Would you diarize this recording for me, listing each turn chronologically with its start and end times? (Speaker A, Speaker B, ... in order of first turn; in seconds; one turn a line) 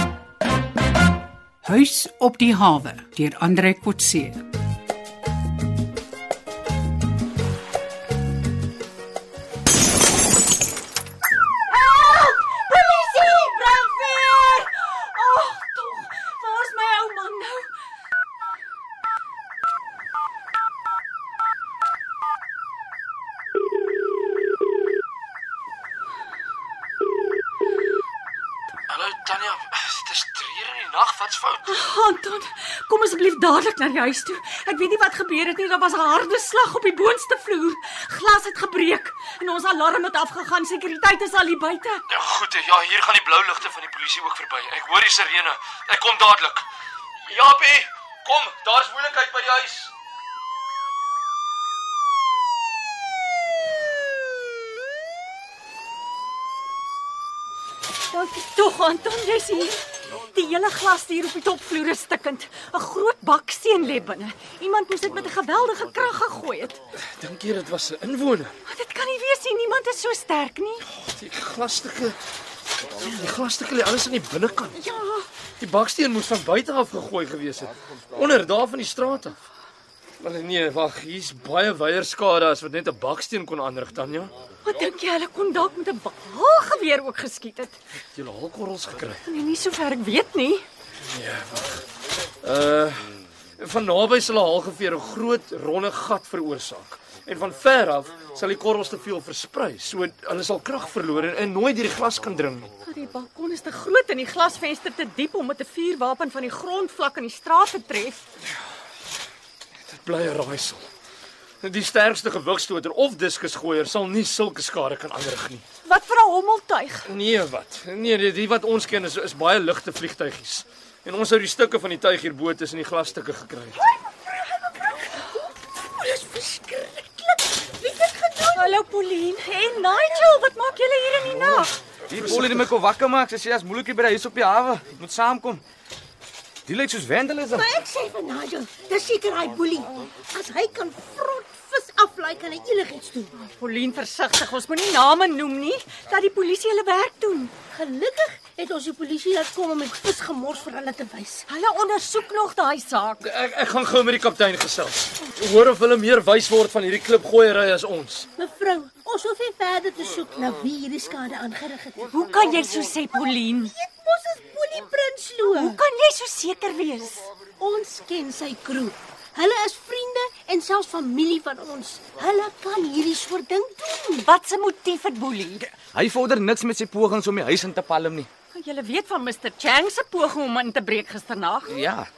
Speaker A: 1.6-4.4
Speaker B: 11.7-17.7
Speaker C: 28.9-31.8
Speaker B: 31.6-42.0
Speaker C: 42.1-46.6
Speaker C: 47.3-49.9
Speaker B: 58.1-66.8
Speaker C: 67.0-68.6
Speaker B: 68.7-70.8
Speaker C: 71.0-72.2
Speaker C: 72.9-74.8
Speaker B: 74.8-75.3
Speaker C: 75.6-79.4
Speaker C: 80.2-84.3
Speaker B: 84.7-87.8
Speaker C: 88.1-89.2
Speaker B: 89.3-90.7
Speaker C: 91.0-91.8
Speaker C: 92.4-102.7
Speaker B: 102.8-108.2
Speaker C: 109.9-110.9
Speaker C: 111.6-115.7
Speaker B: 115.8-117.1
Speaker C: 117.1-123.8
Speaker D: 126.0-128.7
Speaker B: 128.5-131.8
Speaker E: 132.1-135.6
Speaker E: 136.7-137.7
Speaker D: 137.5-143.3
Speaker B: 143.4-147.5
Speaker D: 147.7-151.5
Speaker B: 151.5-153.2
Speaker C: 153.2-158.3
Speaker D: 158.4-162.2
Speaker B: 162.1-163.7
Speaker D: 163.1-165.8
Speaker B: 165.5-167.3
Speaker D: 167.6-174.3
Speaker B: 174.2-175.7
Speaker E: 175.7-178.3
Speaker B: 178.5-181.8
Speaker E: 181.7-182.1